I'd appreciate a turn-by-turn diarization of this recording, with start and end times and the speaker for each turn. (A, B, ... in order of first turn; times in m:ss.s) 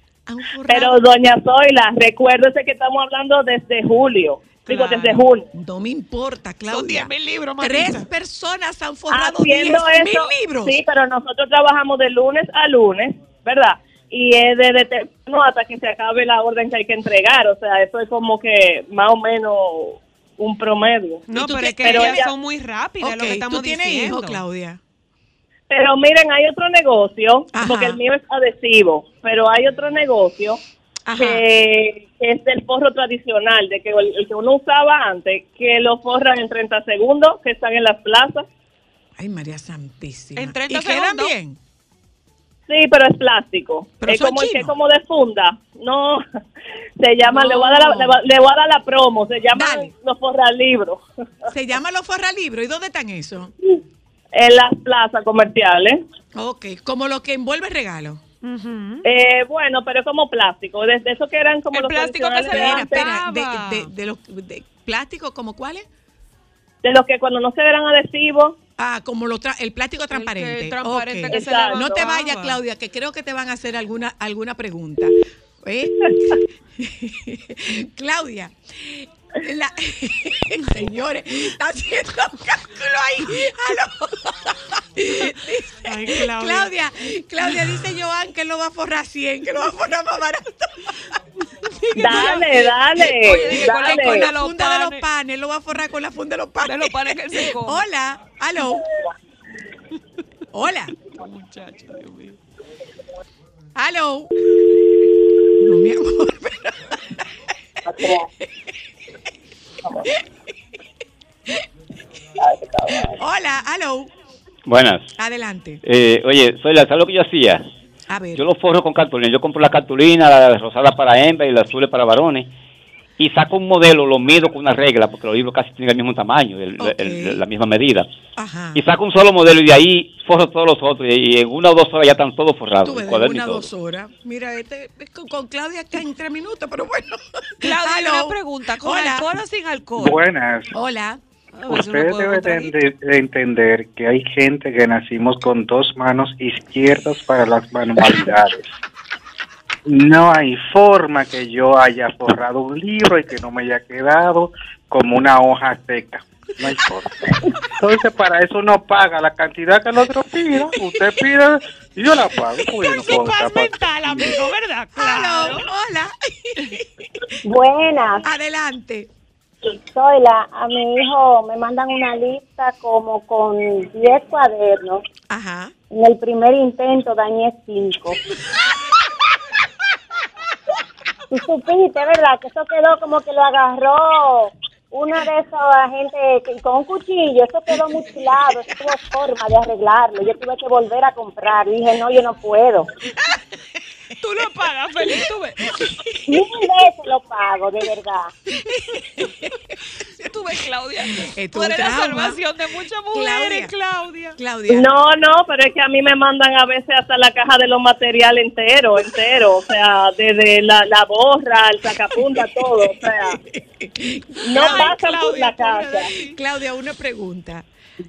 0:00.3-0:01.0 A
0:00.7-0:05.5 B
0:04.7-0:05.2 C
0:05.5-0:10.8 A
0:06.7-0:08.1 C
0:09.1-0:21.2 B
0:21.3-0:24.4 C
0:21.3-0:22.2 A
0:21.8-0:22.3 B
0:23.0-0:24.8 A
0:25.7-0:30.6 B
0:27.5-0:28.0 A
0:31.1-0:31.4 A
0:31.2-0:38.4 B
0:39.2-0:41.6 A
0:40.4-0:41.3 C
0:42.7-0:46.2 B
0:44.0-0:44.7 A
0:47.0-0:51.0 B
0:47.3-0:48.1 A
0:49.5-0:49.9 A
0:51.5-0:53.5 A
0:54.3-0:56.0 B
0:56.4-0:58.2 A
0:58.4-0:59.1 C
0:59.0-1:03.1 B
1:01.7-1:03.9 C
1:02.5-1:05.9 A
1:06.8-1:08.6 B
1:08.8-1:31.2 A
1:10.1-1:12.6 C
1:11.3-1:12.0 B
1:25.8-1:26.7 C
1:31.6-1:35.0 C
1:32.0-1:34.3 B
1:32.0-1:32.4 A
1:33.6-1:38.8 A
1:36.6-1:37.8 C
1:40.5-1:40.9 A
1:41.1-1:42.4 C
1:43.8-1:44.3 A
1:45.6-1:47.2 A
1:52.4-1:53.1 B
1:53.0-1:54.1 A
1:54.7-1:55.1 D
1:55.2-1:55.8 A
1:55.8-1:57.7 D
1:58.1-1:58.4 A
1:58.4-2:02.5 D
2:03.2-2:08.1 D
2:06.8-2:07.4 A
2:08.4-2:08.8 A
2:08.8-2:13.7 D
2:12.8-2:19.3 A
2:17.6-2:20.2 C
2:20.0-2:20.7 E
2:20.7-2:21.2 A
2:21.6-2:22.8 C
2:21.7-2:28.7 E
2:29.9-2:44.4 E
2:42.6-2:45.7 C
2:45.0-2:46.9 A
2:47.5-2:48.2 F
2:48.2-2:49.1 A
2:49.9-2:55.0 F
2:55.3-2:55.7 A
2:55.9-2:58.2 F
3:01.3-3:12.9 F
3:14.2-3:15.8 C
3:15.8-3:16.1 A
3:16.3-3:18.3 F
3:18.5-3:19.6 A
3:20.2-3:24.4 C
3:21.2-3:22.4 A
3:23.1-3:23.7 A
3:24.4-3:24.9 A
3:24.7-3:33.4 B
3:32.1-3:37.7 A
3:34.5-3:36.1 B
3:34.5-3:36.4 C